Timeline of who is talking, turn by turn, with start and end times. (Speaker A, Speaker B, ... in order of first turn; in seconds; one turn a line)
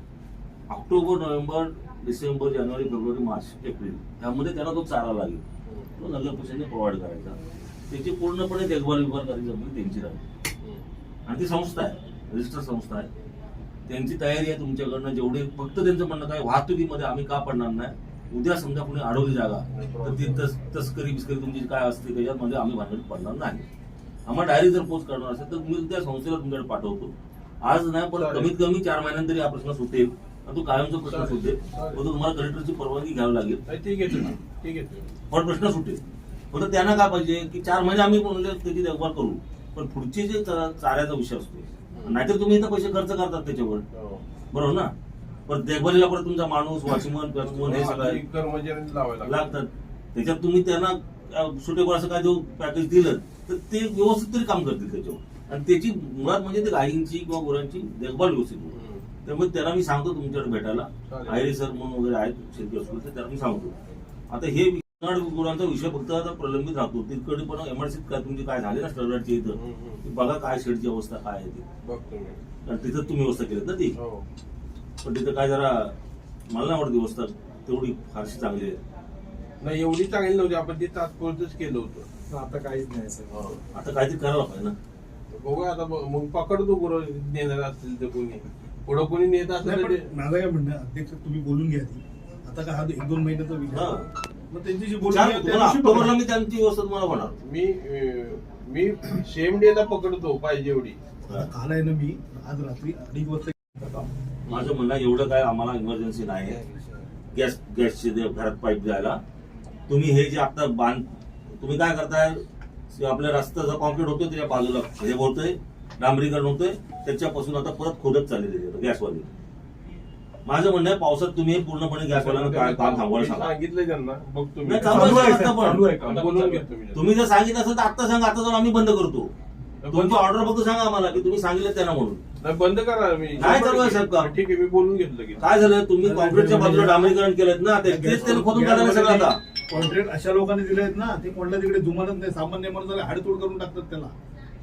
Speaker A: 0.7-5.4
Speaker A: 6.0-10.2
Speaker A: 11.3-13.1
Speaker A: 13.9-23.6
Speaker B: 19.7-20.4
Speaker A: 24.2-33.6
Speaker B: 28.1-28.5
Speaker B: 31.0-32.0
Speaker B: 33.7-35.1
Speaker A: 35.3-36.0
Speaker A: 36.5-43.8
Speaker B: 43.9-44.2
Speaker A: 44.5-44.9
Speaker A: 45.5-48.2
Speaker B: 47.4-49.5
Speaker A: 49.2-63.8
Speaker B: 58.7-59.0
Speaker B: 61.1-61.5
Speaker A: 64.3-71.6
Speaker B: 69.5-70.0
Speaker B: 71.8-72.4
Speaker A: 72.6-73.9
Speaker B: 74.0-74.2
Speaker A: 75.0-75.9
Speaker A: 76.5-78.8
Speaker B: 79.6-82.1
Speaker C: 82.3-83.4
Speaker B: 83.3-83.6
Speaker A: 83.7-84.7
Speaker B: 85.3-90.1
Speaker D: 89.6-94.0
Speaker A: 93.7-94.1
Speaker D: 94.5-96.1
Speaker A: 95.0-97.3
Speaker B: 97.1-101.0
Speaker D: 101.3-104.1
Speaker A: 104.5-106.6
Speaker A: 107.3-109.2
Speaker A: 109.9-111.1
Speaker A: 111.6-119.3
Speaker A: 120.4-123.5
Speaker B: 122.1-127.0
Speaker A: 124.6-125.9
Speaker C: 124.8-126.6
Speaker A: 126.9-129.3
Speaker B: 129.8-130.3
Speaker A: 129.9-132.2
Speaker B: 132.4-135.4
Speaker A: 133.3-134.3
Speaker A: 135.4-139.4
Speaker D: 136.0-137.2
Speaker D: 137.8-144.1
Speaker B: 138.2-138.4